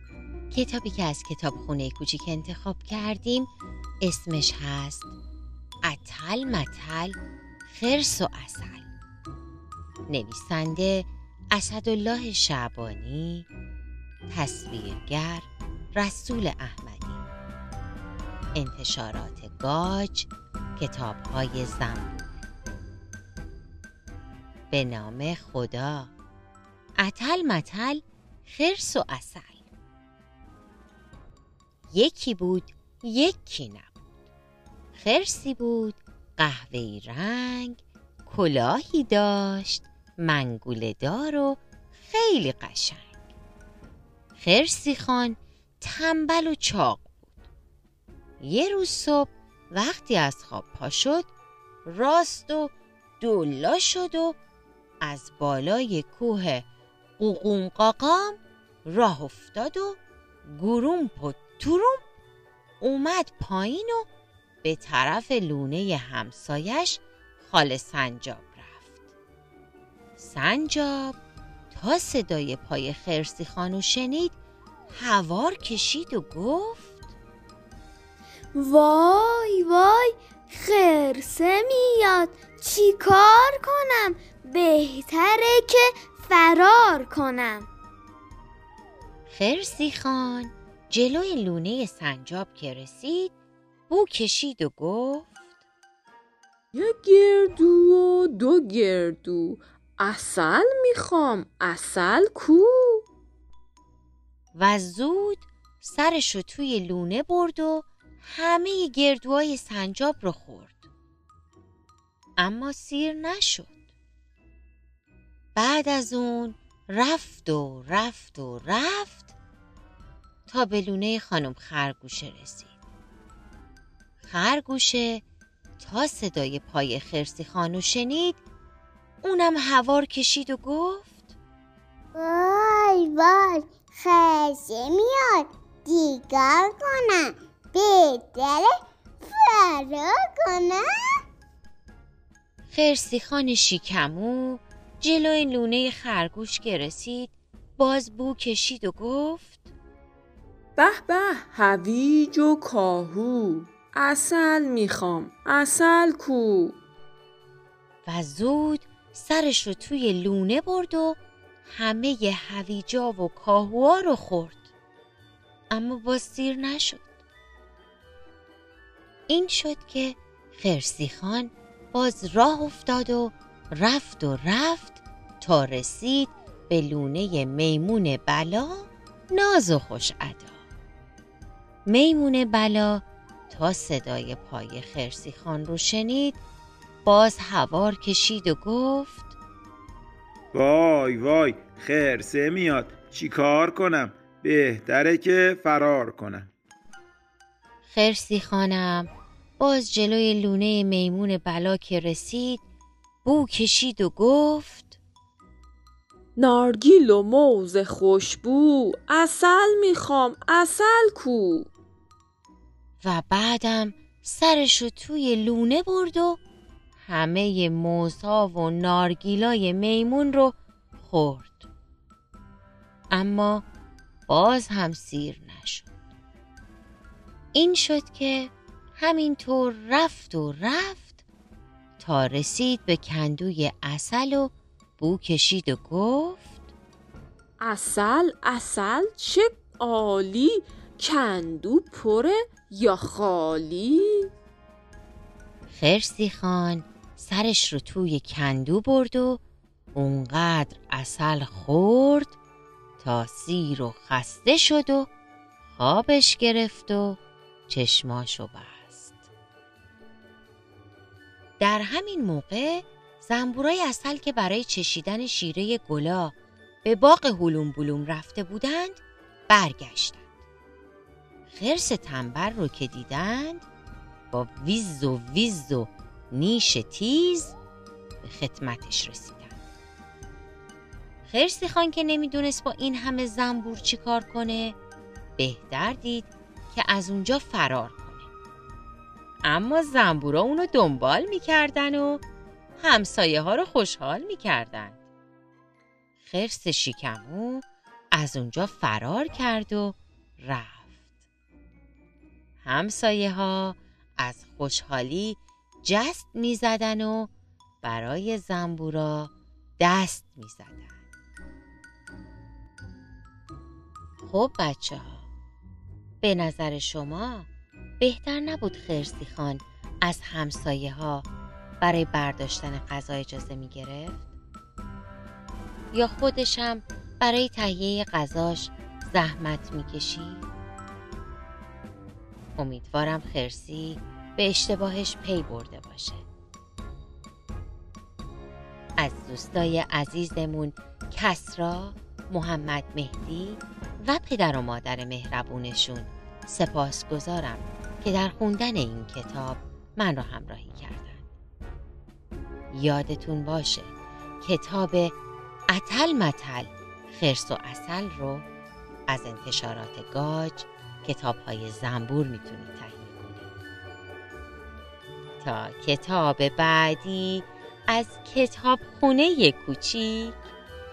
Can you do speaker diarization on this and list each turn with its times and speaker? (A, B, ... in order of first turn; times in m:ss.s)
0:00.5-0:03.5 A
0:04.0-0:05.1 A
0:05.8-0:08.9 A
0:10.1-0:13.5 A
0:14.3-0:17.2 A
0:18.6-0:22.2 A
0:24.7-0:26.1 A
0:27.0-0:29.6 A
0:31.9-0:34.0 A
0:35.0-0:43.1 A
0:44.4-0:47.3 A
0:48.4-0:51.3 A
0:51.9-0:54.4 A
0:55.0-0:56.7 A
0:57.2-1:02.0 A
1:02.8-1:04.1 A
1:04.6-1:08.9 A
1:10.2-1:11.2 A
1:11.7-1:14.4 A
1:14.9-1:16.9 A
1:18.6-1:27.7 B
1:29.3-1:33.3 A
1:33.9-1:35.3 A
1:36.7-1:43.0 C
1:44.6-1:50.9 A
1:52.4-1:53.8 A
1:55.6-1:59.3 A
2:00.5-2:02.7 A
2:04.2-2:05.2 A
2:05.8-2:08.4 A
2:09.2-2:11.2 A
2:12.2-2:18.7 D
2:19.2-2:20.8 D
2:22.7-2:29.6 A
2:30.8-2:36.7 C
2:38.0-2:44.7 A
2:45.7-2:47.1 A
2:49.3-3:00.6 A
3:01.9-3:06.4 A
3:07.0-3:09.3 A
3:10.5-3:16.5 E
3:17.9-3:22.6 A
3:23.2-3:25.0 A
3:26.4-3:31.7 C
3:33.0-3:36.4 A
3:37.0-3:41.7 A
3:43.1-3:43.6 A
3:44.3-3:45.9 A
3:47.5-3:51.2 A
3:52.0-3:56.5 A
3:57.6-4:04.3 C
4:05.7-4:09.4 A
4:10.0-4:12.4 A
4:13.0-4:15.1 A
4:15.8-4:19.2 A
4:21.6-4:30.2 A
4:31.5-4:33.6 A
4:34.3-4:37.5 A
4:38.2-4:39.6 A
4:41.3-4:44.8 A
4:45.4-4:48.3 A
4:49.4-4:52.2 A
4:52.8-4:55.0 A
4:56.2-5:01.0 A
5:02.6-5:07.3 A
5:07.8-5:11.0 A
5:14.2-5:15.3 A
5:16.2-5:17.5 A
5:18.0-5:21.3 A
5:21.8-5:24.3 A
5:25.9-5:30.5 A
5:32.6-5:36.2 A
5:39.0-5:51.2 A
5:52.7-5:55.2 A
5:55.7-5:58.5 A
5:59.1-6:03.5 A
6:05.4-6:10.4 A